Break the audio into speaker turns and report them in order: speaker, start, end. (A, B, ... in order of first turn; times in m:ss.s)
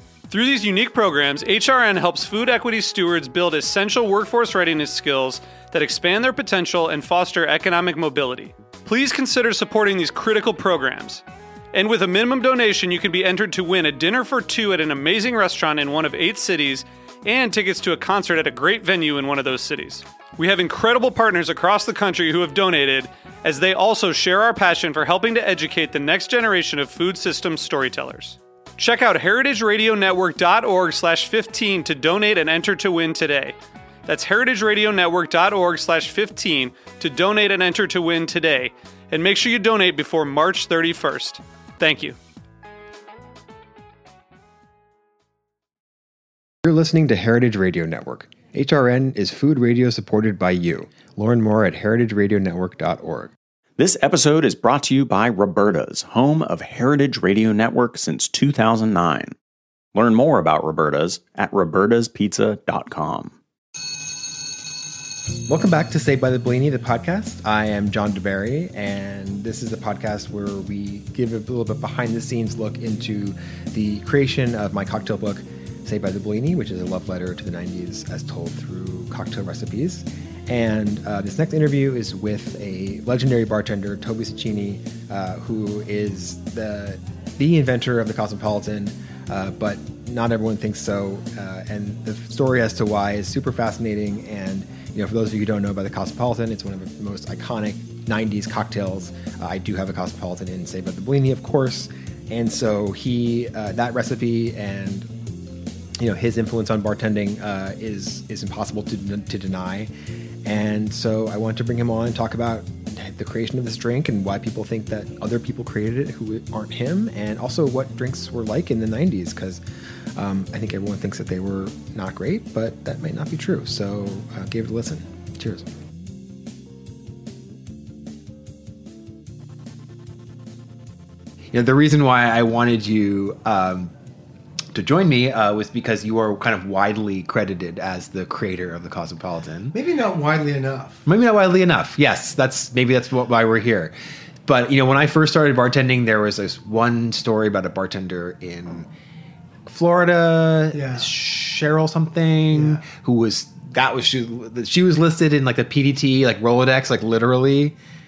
0:00.3-0:33.6 A
0:34.1-0:42.2 A
0:46.6-0:53.3 B
0:53.8-0:59.4 C
0:59.9-1:03.4 C
1:05.5-1:45.1 B
1:46.0-1:49.9 B
1:50.4-1:59.6 B
2:00.2-2:05.7 B
2:11.5-2:13.9 B
2:14.7-2:19.8 B
2:19.7-2:21.0 D
2:21.1-2:23.9 B
2:24.4-2:28.9 B
2:29.7-2:37.8 B
2:30.7-2:31.1 D
2:32.5-2:32.8 D